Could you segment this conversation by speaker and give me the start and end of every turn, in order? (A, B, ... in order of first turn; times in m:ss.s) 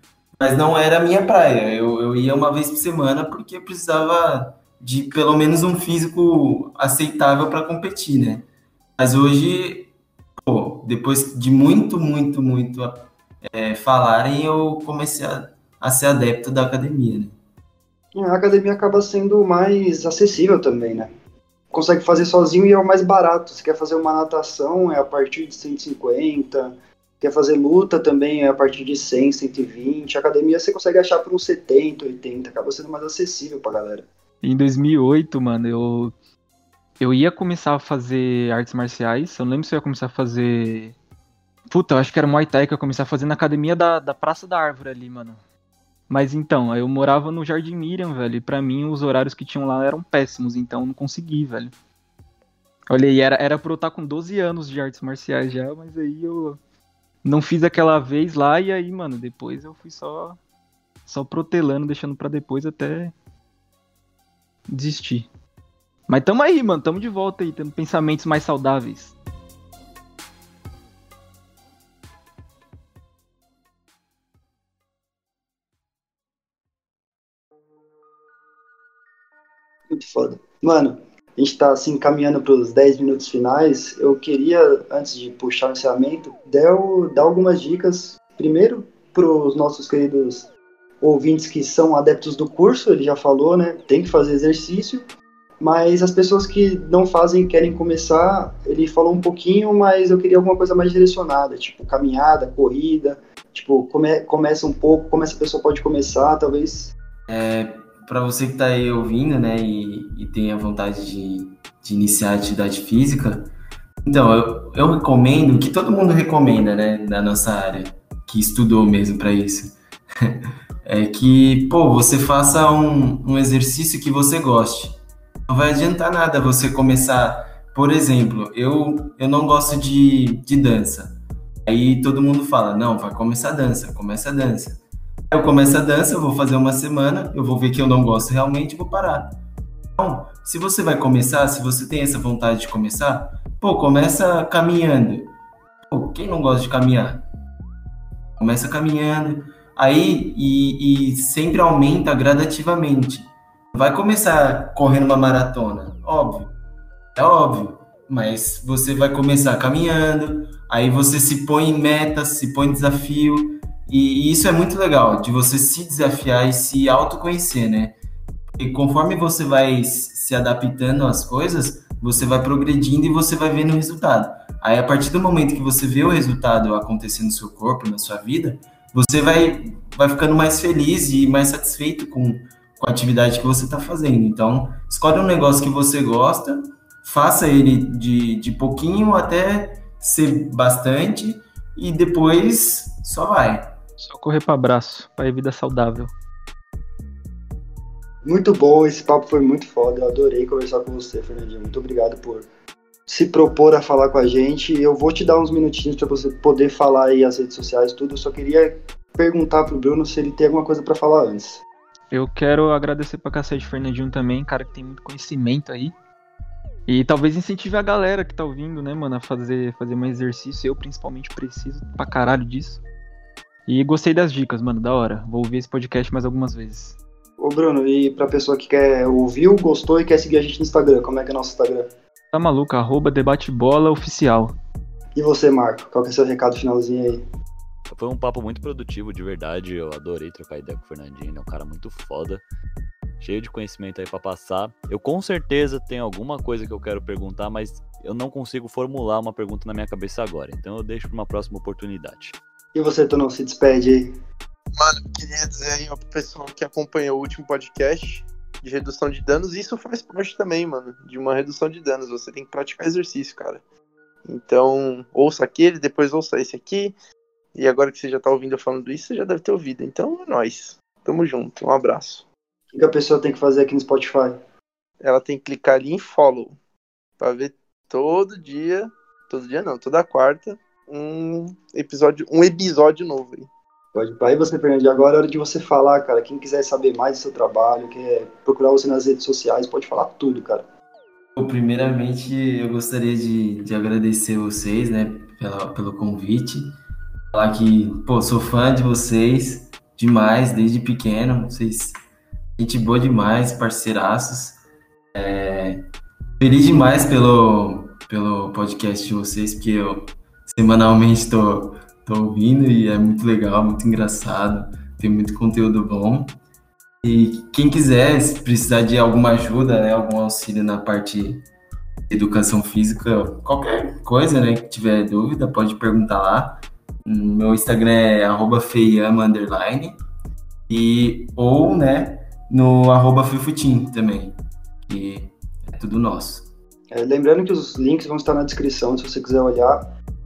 0:00.4-0:08.4 A
0:09.0-0:17.4 A
0:18.1-0:21.1 B
0:21.7-0:34.1 B
0:34.4-0:36.1 C
0:37.0-0:40.9 C
0:41.7-0:45.4 C
0:46.1-0:51.7 C
0:52.9-0:56.6 C
0:57.2-1:00.4 C
1:01.1-1:03.1 C
1:04.7-1:05.3 C
1:06.1-1:09.2 C
1:19.9-1:30.5 B
1:31.0-1:35.1 B
1:35.6-1:46.9 B
1:47.3-1:53.5 A
1:54.0-2:19.4 A
2:20.0-2:25.3 A
2:25.9-2:27.2 A
2:28.4-2:36.5 A
2:37.1-2:48.0 A
2:48.6-3:13.7 A
3:14.0-3:16.1 C
3:18.2-3:22.4 B
3:23.1-3:31.6 B
3:32.1-3:35.9 C
3:36.9-3:42.8 C
3:43.7-3:47.0 C
3:47.4-3:51.9 B
3:52.3-3:54.5 C
3:55.1-3:57.2 B
3:57.9-4:02.4 D
4:03.2-4:12.4 D
4:12.7-4:14.1 B
4:14.7-4:23.6 E
4:24.2-4:26.9 E
4:27.6-4:32.2 E
4:32.7-4:34.4 B
4:35.0-4:36.6 E
4:37.2-4:43.5 E
4:43.9-4:50.7 B
4:51.4-4:56.8 A
4:57.3-5:01.9 A
5:02.6-5:04.6 A
5:05.1-5:05.8 A
5:06.4-5:16.4 A
5:17.0-5:21.4 A
5:22.1-5:30.0 A
5:30.7-5:36.5 A
5:36.9-5:39.8 B